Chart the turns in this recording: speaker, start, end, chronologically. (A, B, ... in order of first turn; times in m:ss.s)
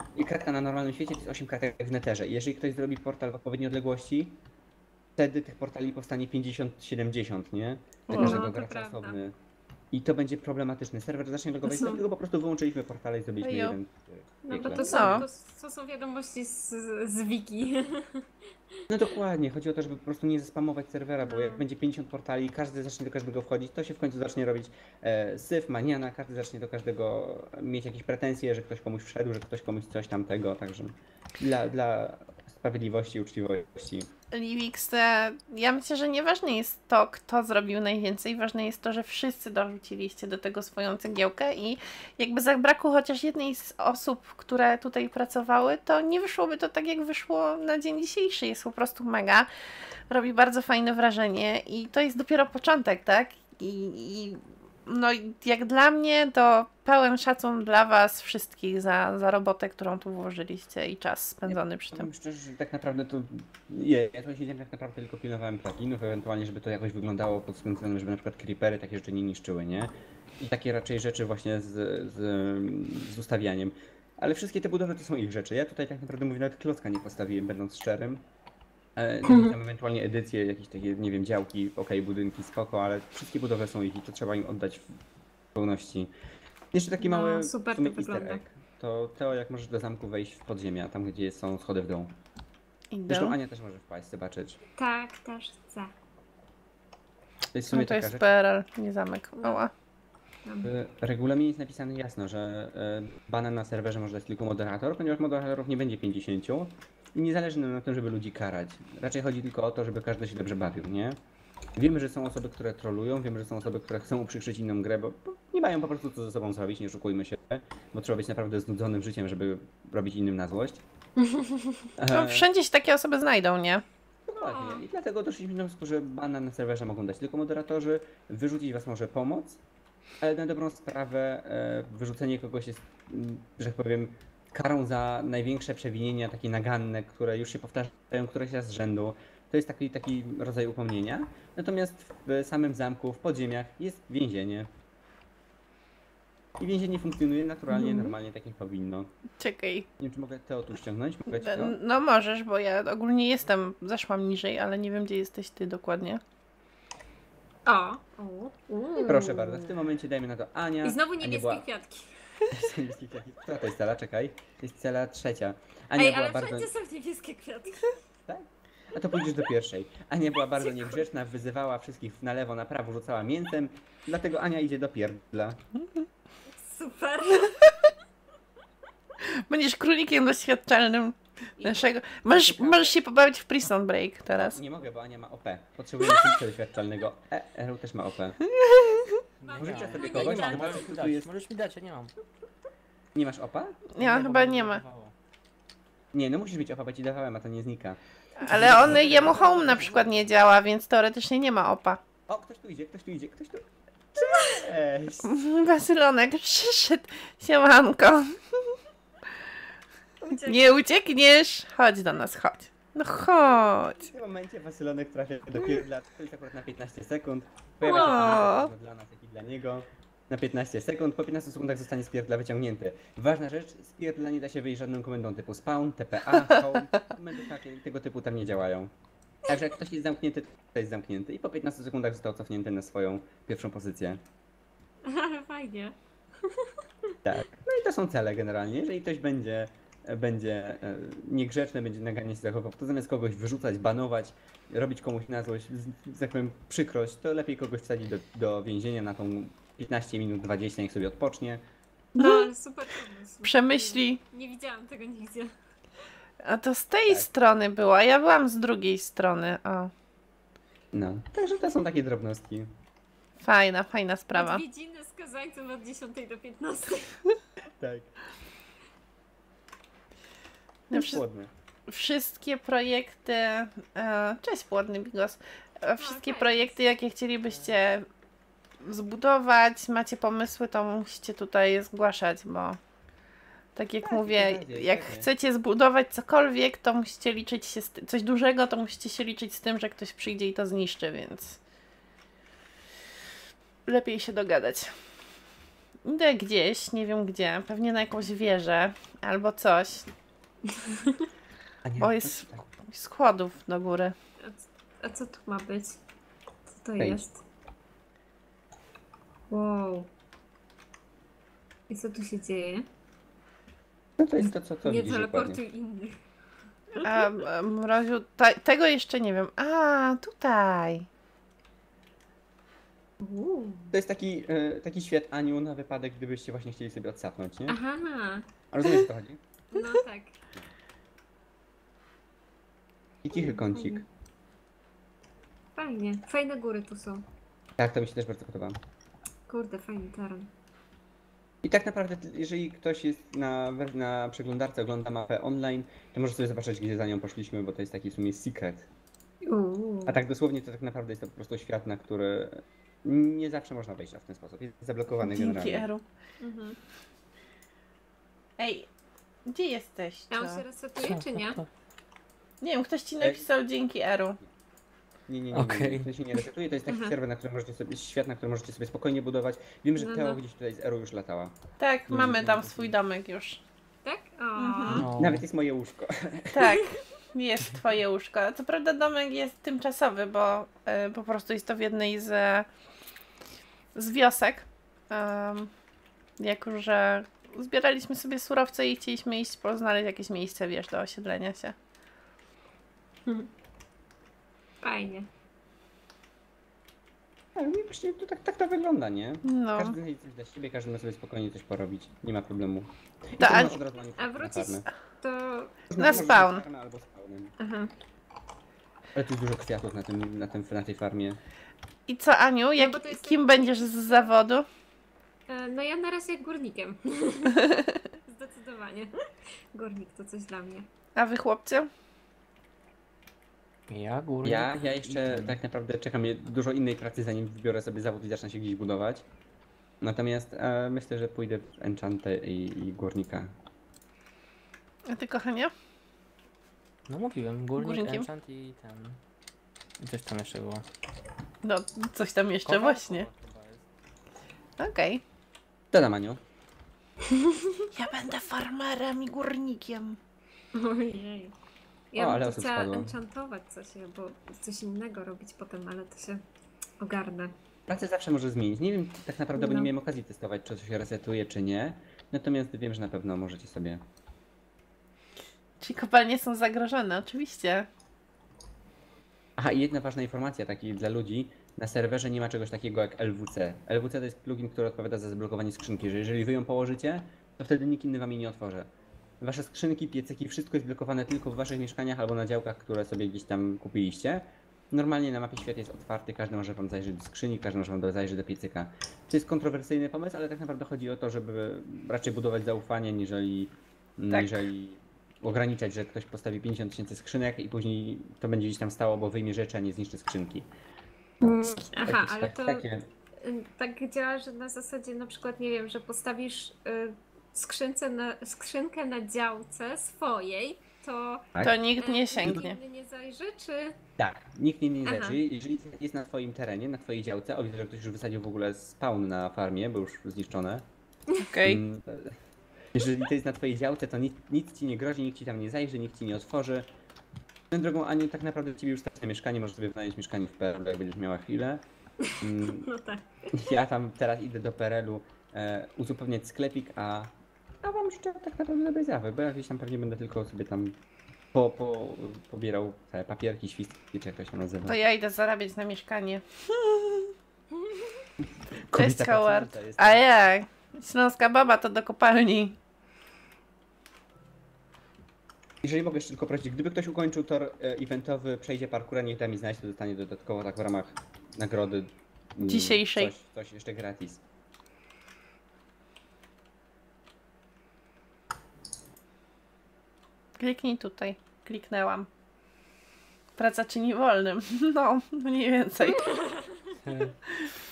0:00.2-0:04.4 A
0:05.2-0:09.4 A
0:08.1-0:08.4 B
0:08.1-0:09.2 C
0:09.9-0:15.3 A
0:11.6-0:12.0 C
0:13.4-0:13.8 B
0:14.5-0:18.8 C
0:14.8-0:15.3 B
0:18.9-0:34.1 A
0:21.2-0:21.6 C
0:34.3-0:49.5 B
0:50.1-1:02.1 B
1:01.5-1:18.2 A
1:19.0-1:24.9 A
1:19.3-1:19.6 C
1:25.5-1:26.1 A
1:26.7-1:32.2 A
1:27.0-1:28.4 C
1:32.9-1:33.4 B
1:33.1-1:34.6 A
1:34.8-1:35.9 C
1:37.5-1:38.3 A
1:37.7-1:39.7 B
1:40.4-1:40.7 C
1:40.6-1:51.2 A
1:51.8-2:00.8 A
2:01.2-2:01.9 C
2:02.0-2:02.5 A
2:02.1-2:03.8 B
2:04.3-2:09.6 A
2:04.4-2:04.8 C
2:10.2-2:24.7 A
2:26.6-2:29.1 A
2:27.8-2:28.1 B
2:29.4-2:29.9 B
2:30.0-2:31.8 A
2:31.3-2:36.2 B
2:37.7-2:39.8 C
2:39.0-2:41.6 A
2:40.8-2:42.2 C
2:42.5-2:46.7 A
2:46.0-2:47.9 C
2:48.3-2:55.6 A
2:50.6-2:51.0 C
2:56.5-2:57.9 C
2:59.4-3:04.6 B
3:02.3-3:02.9 A
3:04.4-3:08.4 A
3:08.5-3:09.2 B
3:09.4-3:12.2 D
3:09.4-3:10.9 C
3:09.5-3:11.3 A
3:13.1-3:13.9 A
3:13.9-3:14.8 B
3:14.0-3:15.1 D
3:16.1-3:20.2 A
3:18.4-3:22.0 B
3:18.5-3:20.2 D
3:22.3-3:25.3 A
3:25.2-3:28.8 B
3:30.2-3:30.9 C
3:30.4-3:34.1 B
3:34.0-3:48.9 A
3:37.8-3:38.5 C
3:37.9-3:38.7 B
3:49.4-3:54.2 A
3:55.0-3:57.2 C
3:57.2-4:11.6 A
4:12.2-4:15.5 C
4:12.2-4:12.5 B
4:13.4-4:14.2 B
4:16.4-4:19.9 B
4:20.9-4:22.7 A
4:23.4-4:24.6 B
4:24.3-4:27.2 C
4:27.8-4:28.2 A
4:30.9-4:31.2 B
4:30.9-4:31.5 A
4:31.9-4:38.1 B
4:36.0-4:36.8 C
4:38.8-4:42.8 B
4:43.8-4:51.6 B
4:44.0-4:45.3 A
4:53.9-4:54.9 B
4:56.0-5:00.1 B
5:00.7-5:01.3 C
5:01.8-5:02.7 A
5:02.0-5:04.2 B
5:04.4-5:06.0 C
5:06.7-5:07.4 C
5:09.5-5:10.1 C
5:11.9-5:12.9 C
5:14.2-5:15.6 A
5:14.8-5:16.2 C
5:16.9-5:17.2 C
5:17.0-5:21.1 B
5:23.2-5:23.9 C
5:23.9-5:27.8 A
5:27.7-5:28.5 C
5:28.7-5:29.4 A
5:29.7-5:30.4 C
5:33.2-5:34.0 A
5:33.3-5:34.0 C
5:35.8-5:37.2 C
5:37.8-5:38.8 A
5:39.5-5:40.5 C
5:41.6-5:48.9 A
5:49.4-5:50.2 C
5:50.1-5:55.9 A
5:55.2-5:56.0 B
5:56.4-5:56.8 C
5:58.6-5:58.9 B
5:59.5-6:00.6 B
6:00.3-6:01.6 C
6:01.0-6:01.7 D
6:02.6-6:04.4 B
6:03.2-6:03.4 A
6:05.3-6:11.6 A
6:05.5-6:06.1 D
6:06.9-6:07.2 C
6:10.0-6:10.4 C
6:11.8-6:13.6 B
6:12.1-6:12.9 D
6:14.0-6:15.1 C
6:14.6-6:15.0 B
6:14.9-6:15.4 D
6:15.0-6:16.8 A
6:16.5-6:22.7 B
6:23.9-6:25.7 B
6:26.4-6:31.8 B
6:33.2-6:33.5 C
6:34.8-6:35.3 C
6:37.6-6:44.9 A
6:39.4-6:40.0 B
6:43.4-6:43.8 B
6:44.2-6:46.0 C
6:45.9-6:47.5 A
6:46.0-6:46.6 B
6:47.6-6:47.9 C
6:49.1-6:51.4 A
6:52.1-6:54.7 B
6:52.8-6:54.3 C
6:55.5-6:59.2 C
6:57.6-6:58.0 B
6:59.7-7:00.9 C
7:01.2-7:01.9 B
7:03.9-7:05.6 D
7:04.4-7:09.2 A
7:10.0-7:13.5 A
7:15.1-7:15.7 B
7:17.1-7:19.2 D
7:17.8-7:18.3 B
7:20.0-7:20.8 D
7:21.6-7:23.3 B
7:22.6-7:23.9 D
7:24.8-7:25.2 B
7:25.9-7:26.4 A
7:27.3-7:27.9 C
7:27.9-7:30.2 B
7:30.7-7:31.5 C
7:32.1-7:36.4 C
7:32.2-7:33.2 A
7:37.0-7:37.5 C
7:37.9-7:44.0 A
7:39.6-7:39.9 C
7:45.8-7:47.9 B
7:49.6-7:58.9 A
7:59.4-8:20.7 A
8:21.4-8:22.8 C
8:21.4-8:23.1 A
8:23.4-8:34.0 C
8:31.6-8:32.8 B
8:34.2-8:40.9 A
8:35.0-8:35.4 C
8:41.4-8:41.8 B
8:41.6-8:42.4 A
8:42.9-8:46.9 A
8:47.7-8:51.8 A
8:52.2-8:53.6 C
8:52.4-8:52.9 A
8:53.5-9:01.0 A
9:01.5-9:05.0 A
9:04.9-9:07.3 B
9:07.7-9:08.3 C
9:08.4-9:10.2 A
9:08.9-9:12.8 B
9:15.8-9:24.4 A
9:22.6-9:23.3 B
9:30.6-9:32.3 B
9:33.6-9:36.3 B
9:36.1-9:37.0 C
9:37.0-9:37.4 A